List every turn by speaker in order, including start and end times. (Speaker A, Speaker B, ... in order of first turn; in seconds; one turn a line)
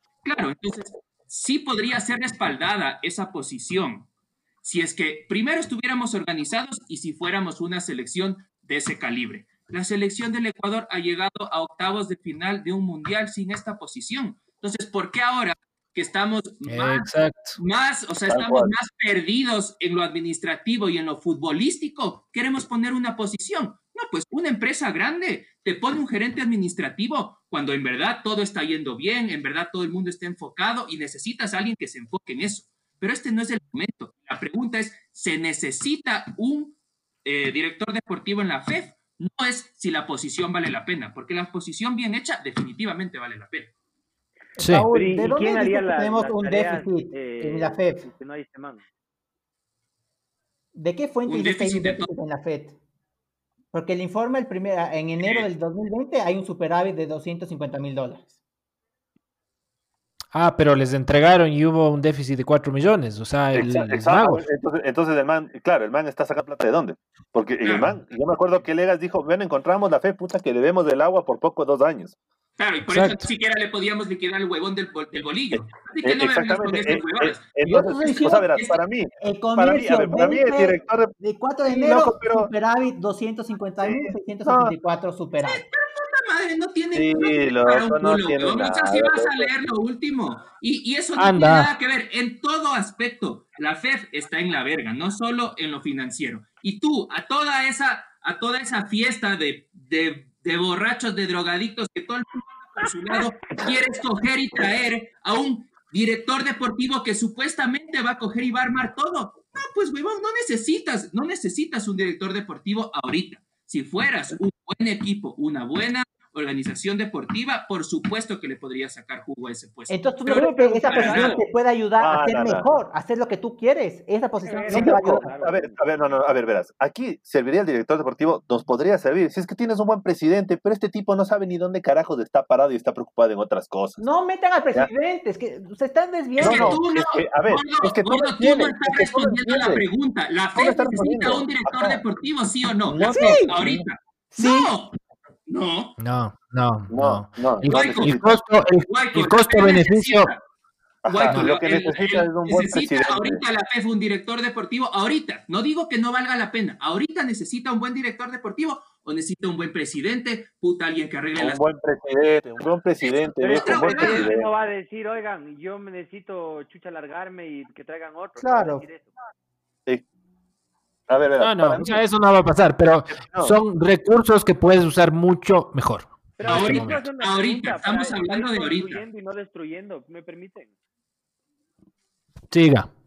Speaker A: 0.2-4.1
Speaker A: 4.6-43.7
Speaker B: 16.6-17.6
Speaker C: 18.3-18.7
Speaker D: 44.5-48.1
Speaker B: 44.6-44.9
Speaker E: 44.9-48.8
Speaker D: 50.7-52.8
Speaker A: 51.3-52.1
Speaker D: 53.7-58.3
Speaker A: 55.2-55.5
Speaker B: 60.3-64.4
Speaker C: 63.5-72.2
Speaker A: 67.6-68.0
Speaker A: 72.6-77.5
Speaker B: 72.8-73.3
Speaker C: 76.0-81.1
Speaker D: 77.6-78.6
Speaker D: 79.2-85.6
Speaker C: 81.7-82.5
Speaker C: 83.8-84.7
Speaker A: 85.4-121.4
Speaker C: 86.9-89.5
Speaker B: 91.2-91.7
Speaker D: 119.9-125.3
Speaker E: 120.3-121.4
Speaker C: 122.0-122.7
Speaker E: 124.4-125.8
Speaker C: 124.7-134.0
Speaker D: 134.0-136.8
Speaker A: 136.4-145.9
Speaker C: 136.4-139.8
Speaker C: 140.5-142.0
Speaker C: 142.9-143.8
Speaker D: 143.0-143.5
Speaker D: 144.3-144.7
Speaker B: 146.0-150.3
Speaker C: 146.9-148.4
Speaker A: 147.6-148.1
Speaker A: 148.9-150.4
Speaker C: 151.0-153.4
Speaker A: 151.1-161.6
Speaker B: 151.2-151.6
Speaker C: 161.4-164.5
Speaker A: 163.0-164.3
Speaker E: 163.4-169.1
Speaker D: 168.4-168.8
Speaker C: 171.1-172.0
Speaker B: 171.4-177.1
Speaker C: 173.1-173.6
Speaker E: 176.4-180.7
Speaker A: 176.4-179.0
Speaker B: 182.5-182.9